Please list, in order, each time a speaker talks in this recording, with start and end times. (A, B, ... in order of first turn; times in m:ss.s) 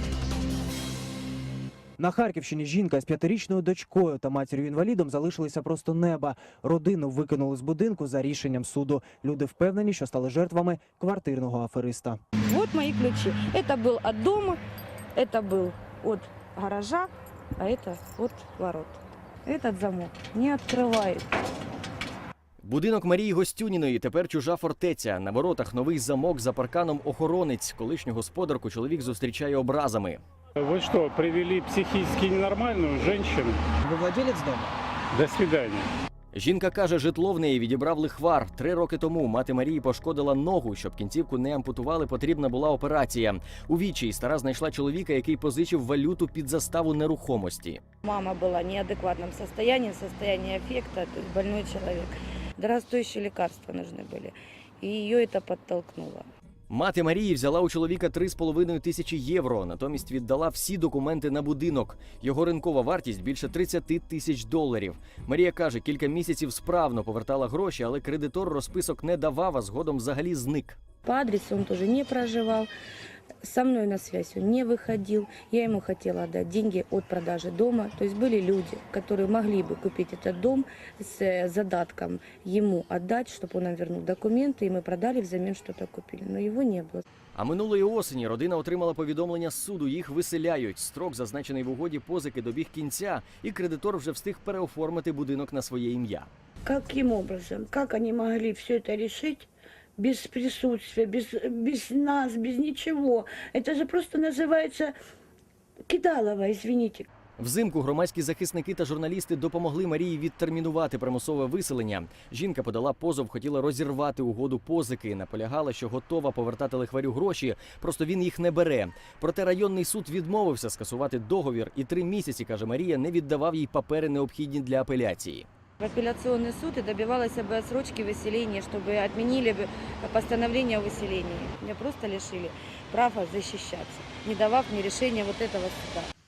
0:02.0-0:12.2 A
0:12.4-0:14.6 B
0:15.2-0:21.3 B
0:22.6-0:30.2 C
0:30.6-0:33.6 D
0:33.8-0:34.7 A
0:35.1-0:35.9 D
0:36.3-0:47.8 C
0:48.0-0:56.3 B
0:56.7-1:10.8 C
1:11.0-1:12.7 B
1:13.4-1:27.0 B
1:27.3-1:36.3 C
1:36.7-1:39.5 E
1:40.1-1:44.8 E
1:45.9-1:47.0 E
1:47.4-2:05.5 C
2:05.8-2:16.1 B